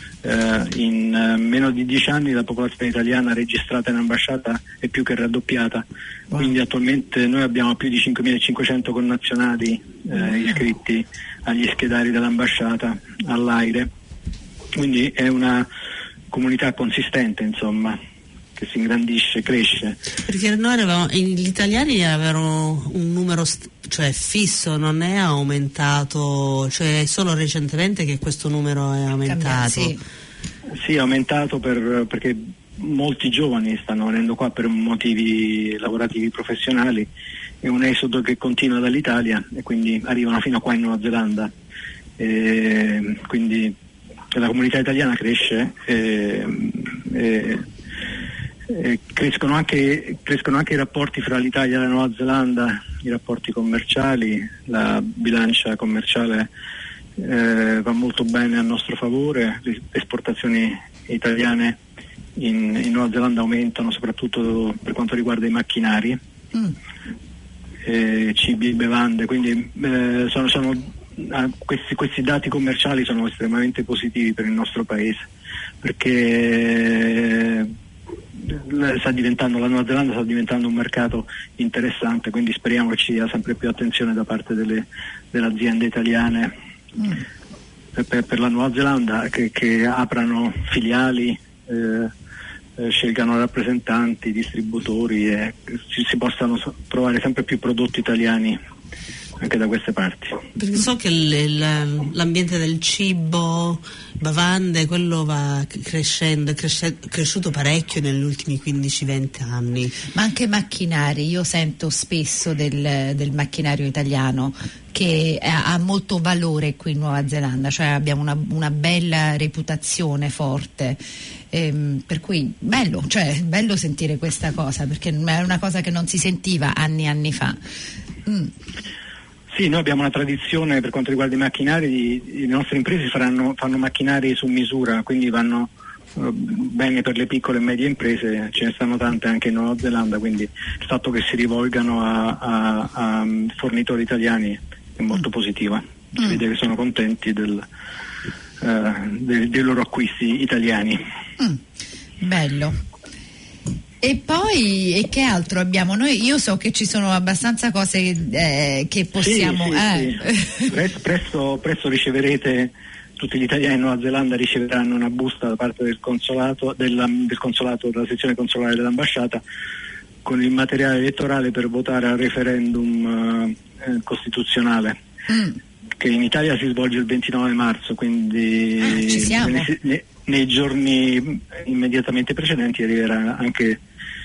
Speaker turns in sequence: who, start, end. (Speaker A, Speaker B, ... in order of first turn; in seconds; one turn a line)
Speaker A: 0.2-13.9
Speaker A: 14.7-15.7
Speaker A: 16.3-18.0
Speaker A: 18.6-20.0
Speaker B: 20.2-29.9
Speaker C: 29.3-30.0
Speaker A: 30.7-37.1
Speaker A: 37.6-41.5
Speaker A: 42.2-43.7
Speaker A: 44.3-47.6
Speaker A: 48.7-56.5
Speaker A: 57.2-61.8
Speaker A: 62.4-66.2
Speaker A: 67.8-75.3
Speaker A: 75.8-77.7
Speaker A: 78.4-86.5
Speaker A: 87.9-92.1
Speaker A: 92.8-98.6
Speaker A: 99.4-100.4
Speaker B: 100.5-110.0
Speaker C: 110.1-121.0
Speaker C: 121.5-127.6
Speaker C: 128.2-128.5
Speaker A: 129.5-147.7
Speaker A: 148.6-151.0
Speaker C: 152.2-152.8
Speaker C: 154.0-160.7
Speaker A: 159.2-169.4
Speaker A: 170.2-175.0
Speaker C: 175.3-175.6
Speaker A: 176.0-183.8
Speaker C: 178.8-179.7